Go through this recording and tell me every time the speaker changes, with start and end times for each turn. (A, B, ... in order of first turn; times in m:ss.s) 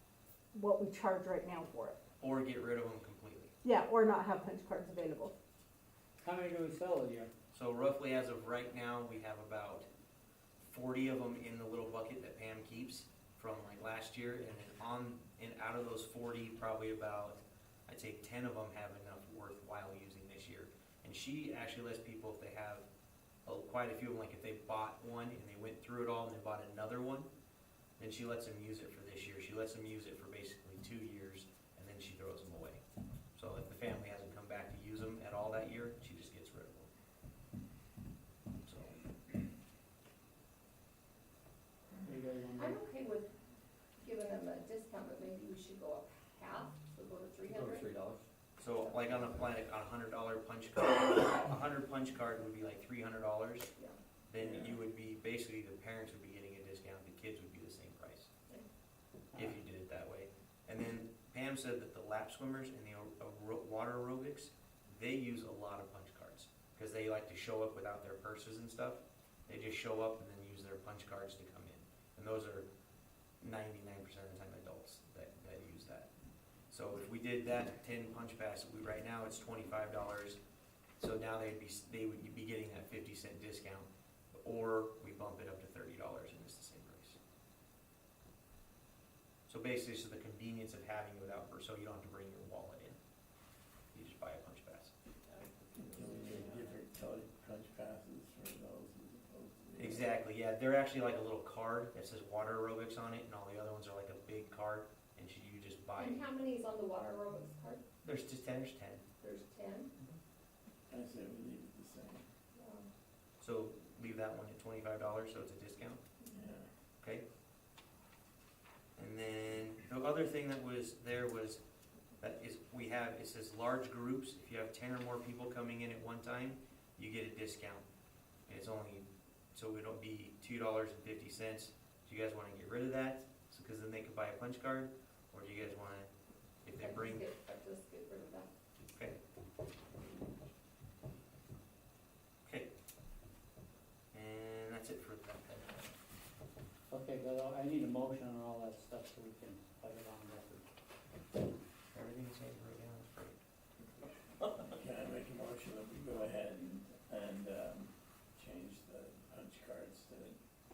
0:00.5-0:02.0 A
0:02.2-0:03.5 B
0:03.6-0:05.3 A
0:06.2-0:07.3 C
0:07.5-0:09.9 B
0:10.6-0:22.9 B
0:23.5-0:27.3 B
0:28.0-0:32.8 B
0:33.4-0:36.9 B
0:38.6-0:39.0 B
0:42.0-0:42.8 C
0:42.6-0:43.3 D
0:44.0-0:47.9 D
0:47.5-0:48.2 E
0:48.6-0:53.7 B
0:48.7-0:49.1 D
0:54.3-0:58.3 B
0:54.4-0:54.7 F
0:59.3-0:59.6 C
0:59.4-1:12.7 B
1:13.4-1:16.1 B
1:16.7-1:20.4 B
1:21.0-1:27.2 B
1:29.5-1:33.0 B
1:33.9-1:34.9 B
1:35.3-1:36.7 E
1:35.8-1:40.1 F
1:39.8-1:46.3 B
1:46.0-1:47.8 D
1:48.0-1:49.0 B
1:49.2-1:49.9 D
1:50.9-1:52.2 F
1:52.6-1:52.9 D
1:53.4-1:56.0 B
1:56.3-1:56.7 F
1:59.0-2:01.6 B
2:02.2-2:07.9 B
2:08.5-2:16.1 B
2:16.6-2:17.3 B
2:16.8-2:18.5 D
2:24.1-2:25.9 B
2:26.9-2:30.7 C
2:31.9-2:33.4 B
2:34.0-2:40.4 F